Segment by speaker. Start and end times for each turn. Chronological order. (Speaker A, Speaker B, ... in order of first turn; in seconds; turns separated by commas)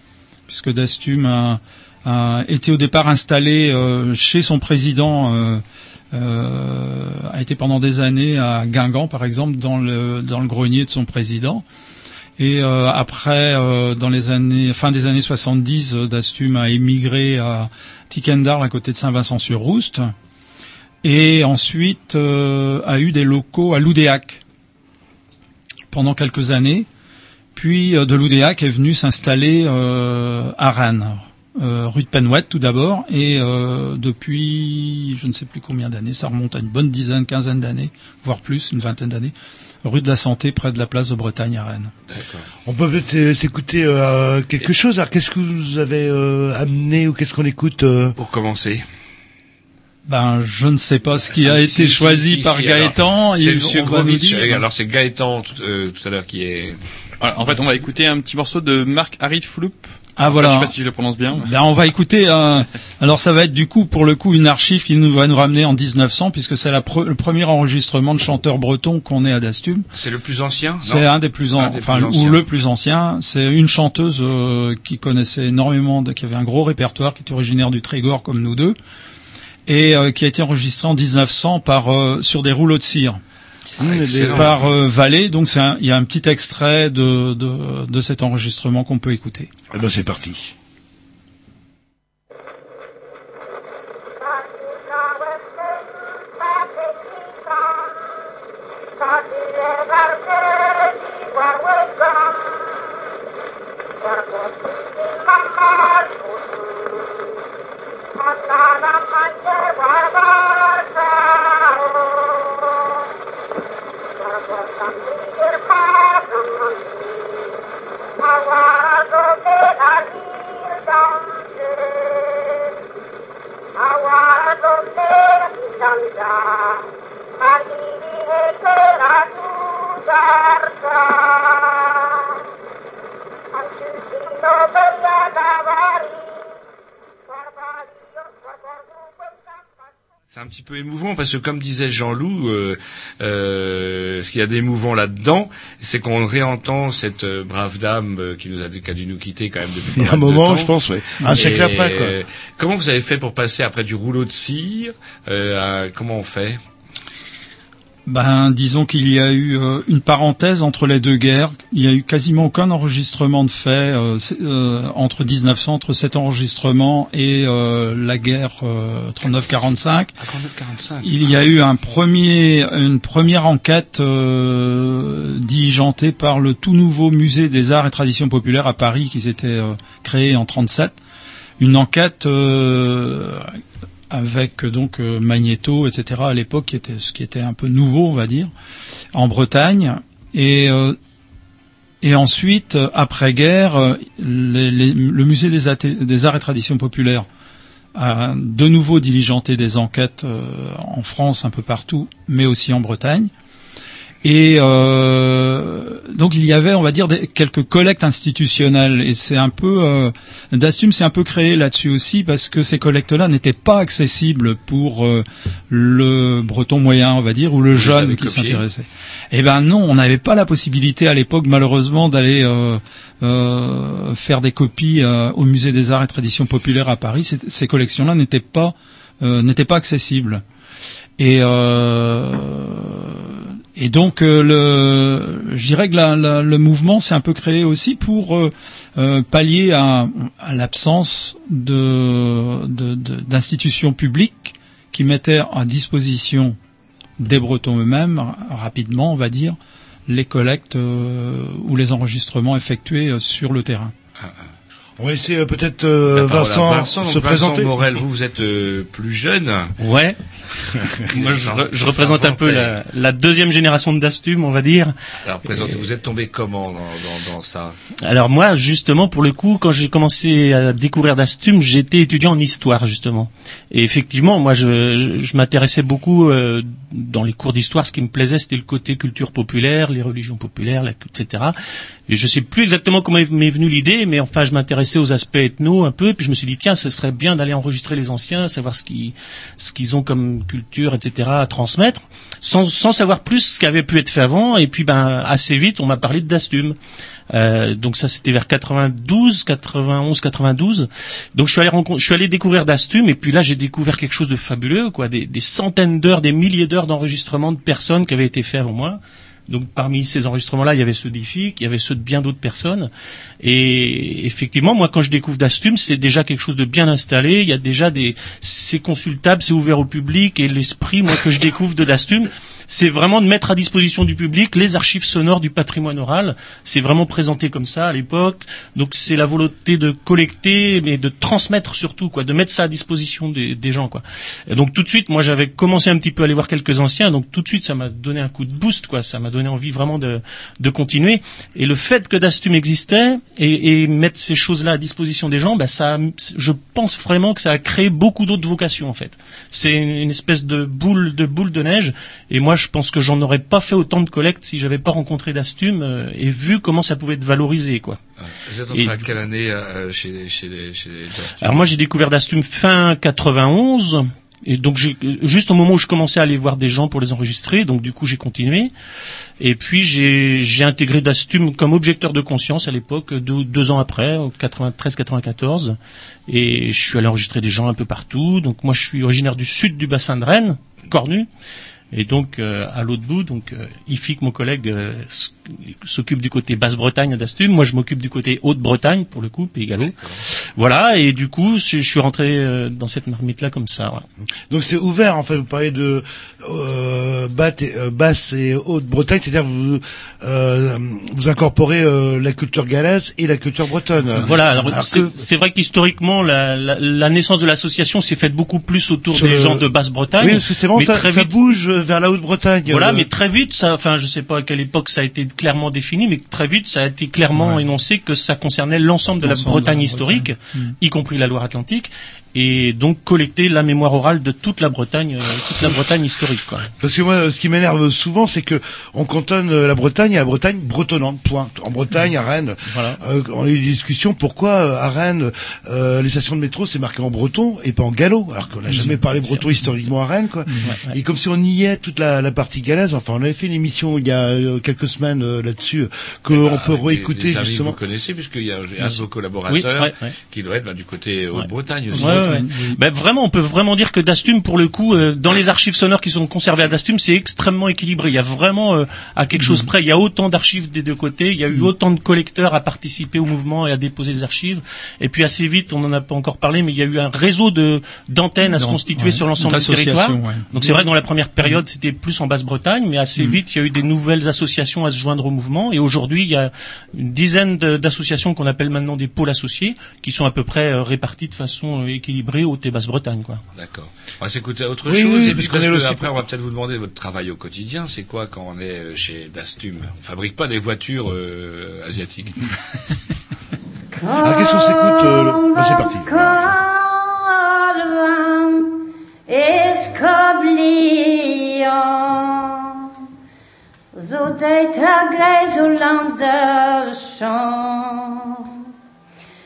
Speaker A: 0.5-11.6, Speaker A: 12.4-20.1, Speaker A: 21.0-24.4, Speaker A: 25.9-26.9, Speaker A: 27.5-41.9, Speaker B: 42.1-42.5, Speaker C: 42.6-48.1, Speaker B: 48.1-48.8, Speaker A: 50.0-54.6, Speaker B: 51.2-56.8, Speaker D: 57.2-61.5, Speaker A: 60.2-60.7, Speaker A: 61.4-69.8, Speaker B: 69.9-72.4, Speaker A: 70.8-78.8, Speaker A: 79.7-83.2, Speaker C: 83.8-84.6, Speaker B: 83.8-84.7, Speaker A: 84.3-89.5, Speaker C: 89.7-90.5, Speaker B: 140.3-150.7, Speaker C: 149.9-152.2, Speaker B: 151.3-156.6, Speaker A: 158.1-170.1, Speaker B: 169.2-169.7, Speaker B: 170.2-171.1, Speaker A: 171.0-180.9, Speaker A: 181.6-183.6, Speaker A: 184.1-188.5, Speaker A: 189.1-191.0, Speaker A: 192.0-197.3, Speaker A: 197.9-203.3, Speaker A: 204.2-230.4, Speaker B: 217.7-218.6, Speaker A: 231.2-246.6, Speaker A: 247.2-249.6, Speaker A: 250.1-253.9, Speaker C: 255.0-257.8, Speaker B: 256.1-259.7, Speaker E: 259.8-260.2, Speaker B: 261.1-262.8, Speaker E: 261.1-264.9, Speaker B: 265.2-267.8, Speaker E: 265.5-265.8, Speaker E: 268.0-281.6, Speaker E: 282.1-296.8, Speaker E: 297.3-358.0, Speaker B: 358.2-361.5, Speaker E: 358.7-359.0, Speaker E: 361.4-368.7, Speaker E: 369.4-381.3, Speaker E: 381.9-394.0, Speaker C: 394.5-405.1, Speaker E: 404.1-411.4, Speaker C: 409.1-409.6, Speaker C: 410.2-413.1, Speaker E: 412.6-426.7, Speaker A: 417.3-417.6, Speaker A: 419.2-420.7, Speaker C: 426.8-447.8, Speaker E: 432.7-433.0, Speaker E: 438.7-439.9, Speaker E: 440.6-440.9, Speaker B: 446.3-452.2, Speaker E: 448.8-450.1, Speaker E: 451.3-483.4, Speaker A: 451.9-452.8, Speaker A: 459.4-459.7, Speaker A: 468.4-470.9, Speaker B: 483.5-492.3, Speaker C: 484.9-486.1, Speaker F: 494.0-502.9, Speaker C: 494.2-496.5, Speaker F: 503.9-508.5